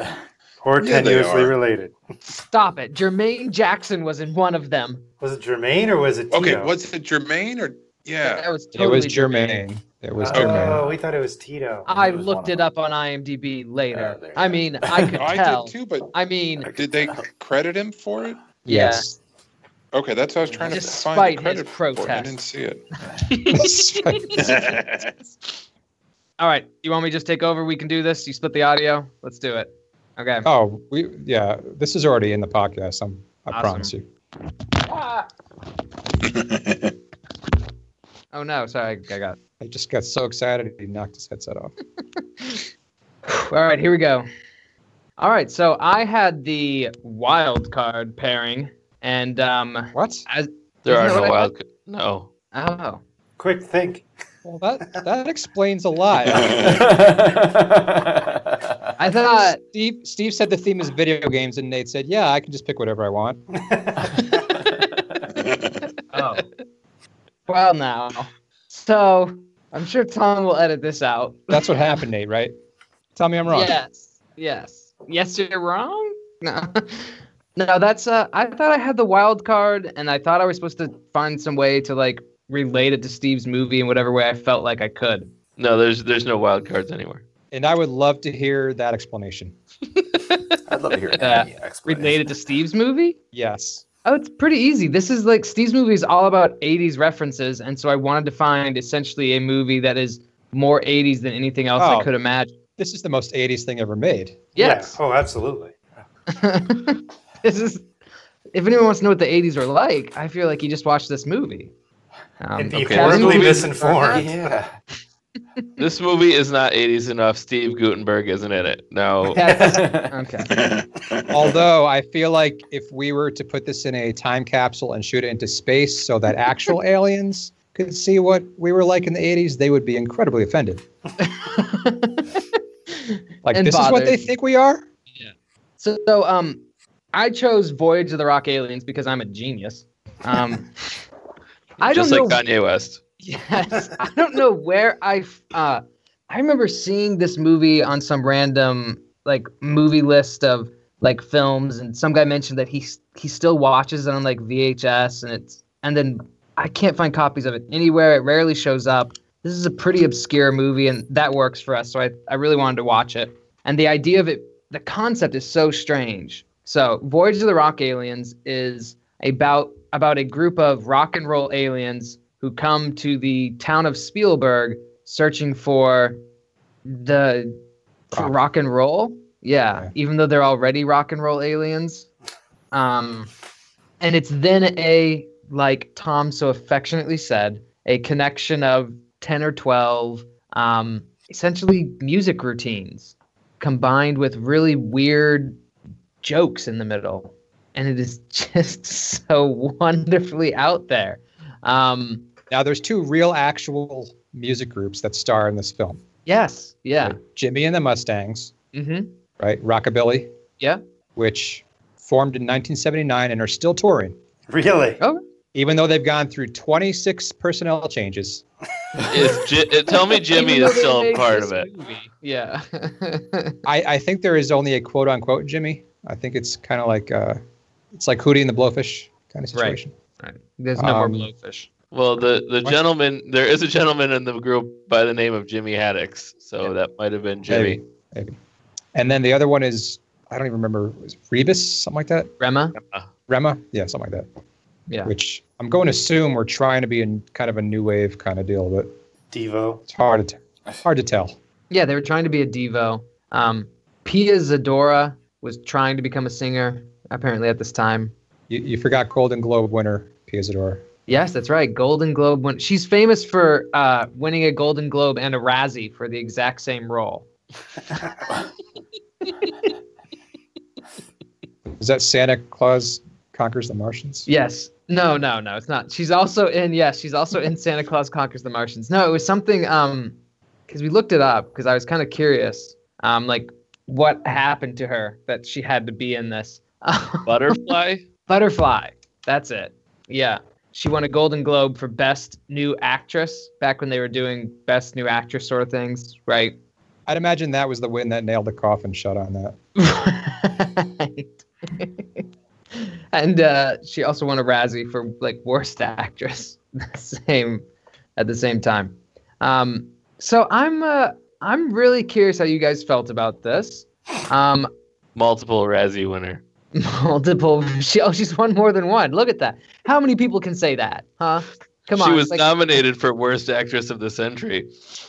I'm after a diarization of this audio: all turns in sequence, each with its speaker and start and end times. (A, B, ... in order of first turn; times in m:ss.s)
0:00.6-0:01.9 A
0:00.8-0:01.6 B
0:02.3-0:05.0 C
0:05.2-0:06.7 A
0:06.3-0:08.5 B
0:08.2-0:09.6 C
0:08.8-0:10.9 D
0:10.2-0:11.9 A
0:11.9-0:16.7 C
0:11.9-0:12.7 E
0:13.9-0:15.2 E
0:15.2-0:16.2 B
0:16.7-0:18.4 B
0:18.6-0:19.2 D
0:18.7-0:19.0 C
0:19.9-0:22.8 B
0:20.5-0:20.9 E
0:20.7-0:22.4 C
0:23.3-0:24.4 C
0:23.5-0:24.5 D
0:24.3-0:25.1 B
0:26.4-0:30.5 C
0:30.4-0:34.1 D
0:33.5-0:33.9 C
0:36.4-0:36.8 B
0:38.3-0:39.4 C
0:39.6-0:41.7 D
0:43.3-0:44.2 C
0:45.2-0:51.5 C
0:49.9-0:50.2 D
0:50.8-0:52.3 F
0:52.5-0:53.0 C
0:53.4-0:54.1 A
0:54.4-0:56.8 D
0:56.3-0:56.9 B
0:56.3-0:58.9 E
0:59.0-0:59.6 C
0:59.4-1:03.4 D
1:03.6-1:04.5 A
1:04.1-1:05.2 E
1:05.3-1:05.8 B
1:06.1-1:06.5 C
1:07.5-1:11.8 C
1:11.5-1:12.5 D
1:13.2-1:13.7 D
1:13.5-1:25.3 C
1:25.6-1:27.2 F
1:27.5-1:29.6 D
1:30.7-1:32.3 E
1:31.2-1:33.2 C
1:33.3-1:33.8 D
1:34.0-1:42.5 C
1:41.8-1:42.1 D
1:42.8-1:44.5 D
1:44.6-1:45.0 C
1:44.6-1:45.8 A
1:46.3-1:47.8 C
1:48.5-1:51.7 C
1:52.4-1:54.2 C
1:52.6-1:54.6 A
1:52.9-1:53.6 F
1:53.0-1:54.8 E
1:55.8-1:59.6 F
1:59.4-2:00.6 C
1:59.4-2:00.1 E
2:00.5-2:01.5 B
2:01.3-2:10.8 D
2:11.2-2:12.4 C
2:12.9-2:14.3 C
2:13.4-2:14.8 D
2:15.2-2:21.0 C
2:21.8-2:22.4 C
2:21.8-2:23.0 F
2:23.2-2:56.2 C
2:56.8-2:57.6 C
2:58.1-3:02.1 C
3:02.7-3:03.3 C
3:04.0-3:15.6 C
3:16.2-3:22.2 C
3:22.5-3:26.0 D
3:26.3-3:27.2 C
3:27.0-3:28.5 D
3:28.7-3:29.1 C
3:29.4-3:30.3 D
3:31.2-3:34.2 D
3:34.5-3:35.0 A
3:35.5-3:38.4 D
3:39.1-3:41.7 F
3:39.9-3:43.6 C
3:43.6-3:47.4 D
3:47.9-3:49.9 D
3:49.5-3:51.7 C
3:50.8-3:51.3 D
3:51.9-3:57.8 F
3:57.5-3:58.4 D
3:59.0-4:02.3 D
4:02.4-4:02.8 C
4:02.8-4:03.1 F
4:03.3-4:04.3 D
4:05.0-4:08.9 D
4:09.3-4:09.8 A
4:09.9-4:11.4 D
4:11.7-4:18.1 C
4:18.5-4:20.8 D
4:21.1-4:27.3 C
4:31.7-4:34.3 D
4:34.3-4:40.2 C
4:40.7-4:47.7 C
4:47.3-4:48.0 F
4:48.3-4:56.6 C
4:57.1-4:59.6 D
4:59.8-5:14.7 C
5:15.2-5:16.4 F
5:16.7-5:22.5 C
5:21.9-5:24.7 F